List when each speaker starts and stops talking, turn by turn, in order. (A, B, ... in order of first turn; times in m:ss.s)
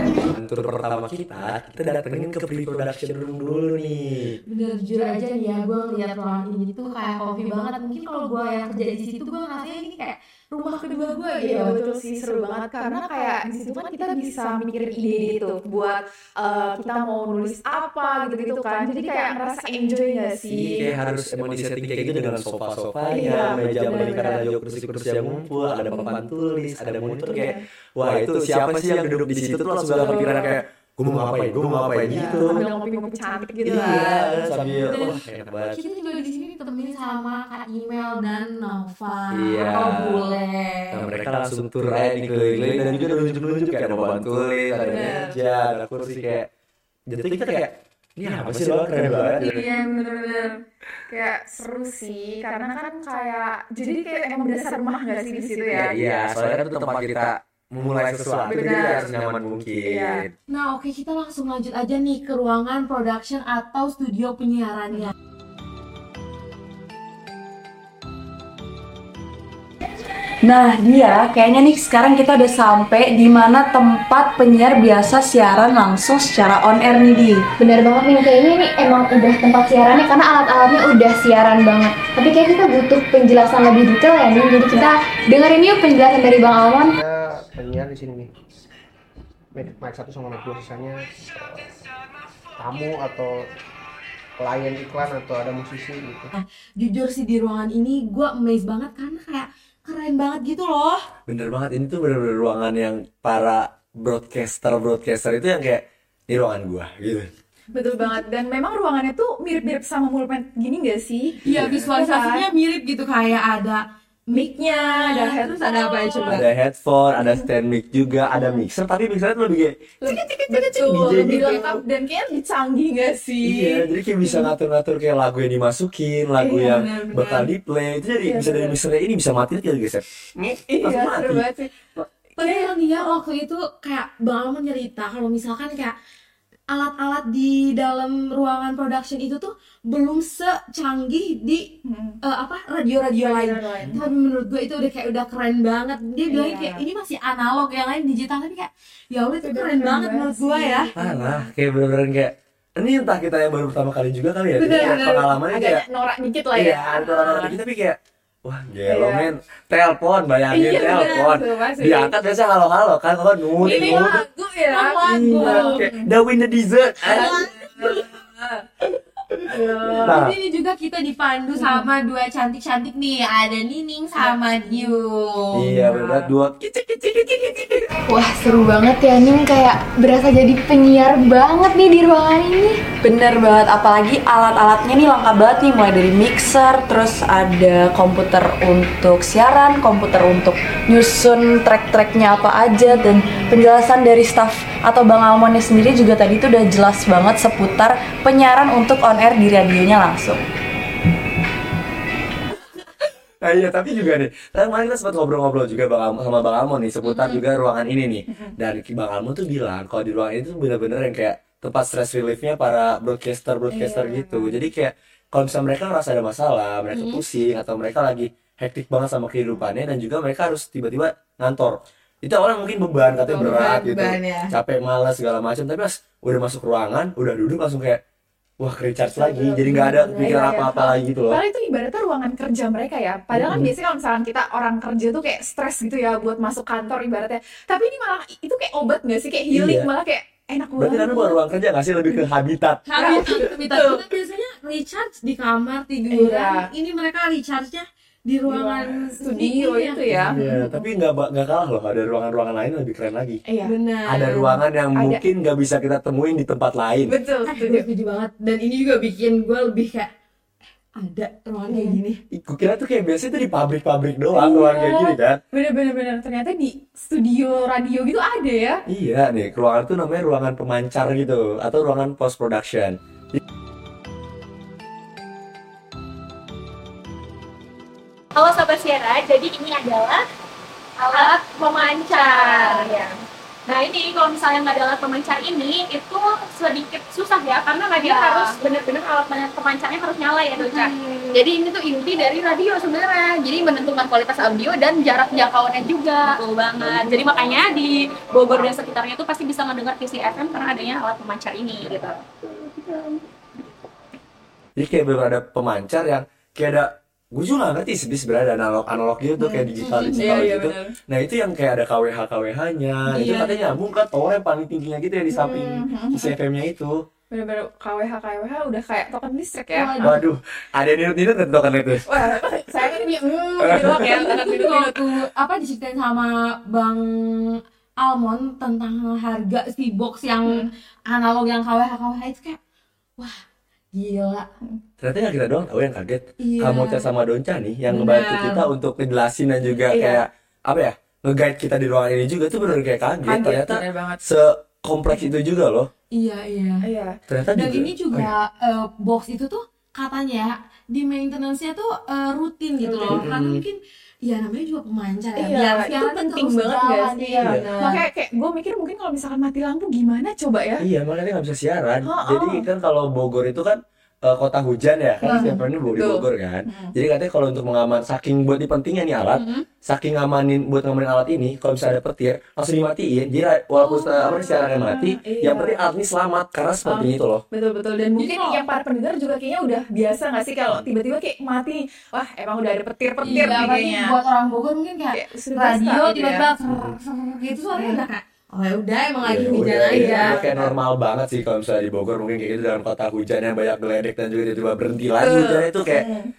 0:00.3-0:04.4 A
0:04.5-0:11.8 B
0:11.4-0:20.8 C
0:20.5-0:32.6 A
0:23.1-0:24.5 C
0:25.9-0:26.2 C
0:27.3-0:27.6 C
0:30.0-0:30.6 C
0:32.1-0:34.6 C
0:33.6-0:35.8 A
0:33.7-0:34.0 B
0:34.6-0:41.1 B
0:39.3-0:40.3 A
0:40.9-0:46.5 A
0:44.8-0:45.4 C
0:44.8-0:45.2 B
0:47.1-0:49.6 A
0:49.0-0:50.6 B
0:49.4-0:50.5 C
0:51.1-0:55.9 C
0:55.7-1:00.3 A
0:58.4-0:59.2 C
0:59.8-1:00.2 C
1:00.5-1:05.1 B
1:10.4-1:17.5 D
1:17.7-1:21.2 E
1:22.2-1:24.6 E
1:26.3-1:26.8 E
1:26.8-1:28.3 F
1:29.5-1:31.6 F
1:32.6-1:33.4 F
1:34.4-1:36.3 F
1:36.3-1:41.0 B
1:41.3-1:47.3 A
1:47.7-1:52.5 C
1:51.4-1:56.4 B
1:51.6-1:51.8 A
1:54.3-1:56.4 C
1:56.3-2:01.8 A
2:00.0-2:04.5 C
2:01.1-2:01.4 B
2:03.4-2:11.4 A
2:06.4-2:06.8 C
2:06.6-2:07.5 B
2:08.2-2:08.8 C
2:10.7-2:11.7 C
2:12.4-2:16.0 B
2:12.4-2:13.1 C
2:16.7-2:30.9 B
2:21.8-2:22.2 C
2:23.1-2:24.0 C
2:26.2-2:26.8 C
2:29.4-2:31.4 C
2:31.0-2:35.8 A
2:34.5-2:35.4 B
2:34.7-2:37.6 C
2:36.5-2:44.2 A
2:38.8-2:39.3 C
2:40.5-2:42.1 C
2:43.6-2:46.1 C
2:43.6-2:45.9 B
2:45.0-2:47.4 A
2:47.1-2:48.0 B
2:47.1-2:48.6 C
2:49.5-2:55.7 B
2:49.6-2:50.1 C
2:50.0-2:50.3 A
2:51.6-2:51.8 C
2:54.2-2:54.8 C
2:55.5-2:56.5 A
2:55.7-2:57.9 C
3:00.3-3:20.4 D
3:19.4-3:20.1 F
3:23.4-3:48.0 A
3:33.7-3:34.6 C
3:36.9-3:37.2 B
3:43.2-3:43.7 C
3:43.4-3:44.5 B
3:48.6-3:51.4 A
3:49.2-4:01.4 C
3:49.6-3:50.5 B
3:53.3-3:53.7 A
3:59.5-3:59.9 A
4:00.8-4:03.1 A
4:02.8-4:10.8 B
4:03.0-4:04.0 C
4:06.1-4:06.7 C
4:08.4-4:10.6 C
4:10.1-4:13.4 A
4:13.4-4:13.7 C
4:13.6-4:14.6 B
4:14.0-4:17.1 A
4:14.9-4:15.2 C
4:17.1-4:17.9 C
4:17.4-4:20.1 B
4:20.9-4:22.2 B
4:21.7-4:22.0 C
4:22.3-4:25.4 A
4:24.4-4:28.8 C
4:28.9-4:33.4 A
4:38.3-4:40.2 G
4:41.0-5:02.2 G
5:04.8-5:17.0 A
5:09.4-5:10.5 B
5:10.1-5:10.9 C
5:13.1-5:13.6 B
5:15.3-5:16.3 C
5:17.3-5:20.2 C
5:19.7-5:20.2 B
5:20.0-5:22.0 A
5:22.1-5:25.0 C
5:23.0-5:32.6 B
5:23.6-5:23.9 A
5:33.9-5:34.5 B
5:35.0-5:45.9 A
5:36.4-5:37.1 B
5:37.9-5:38.7 B
5:39.9-5:40.2 C
5:43.2-5:44.2 C
5:46.1-5:46.9 B
5:46.8-5:47.2 C
5:47.3-5:48.3 A
5:47.5-5:58.0 B
5:52.8-5:53.3 C
5:53.1-5:53.6 A
5:55.3-6:00.8 C
5:57.4-5:57.6 A
6:00.8-6:17.4 A
6:02.0-6:02.6 C
6:05.2-6:06.9 C
6:05.2-6:05.5 B
6:13.7-6:15.8 C
6:16.8-6:24.2 C
6:18.2-6:18.6 B
6:23.2-6:30.4 B
6:23.3-6:23.7 A
6:25.1-6:26.5 C
6:26.7-6:27.0 A
6:27.7-6:28.0 C
6:29.2-6:36.1 A
6:29.5-6:30.7 C
6:35.2-6:36.3 C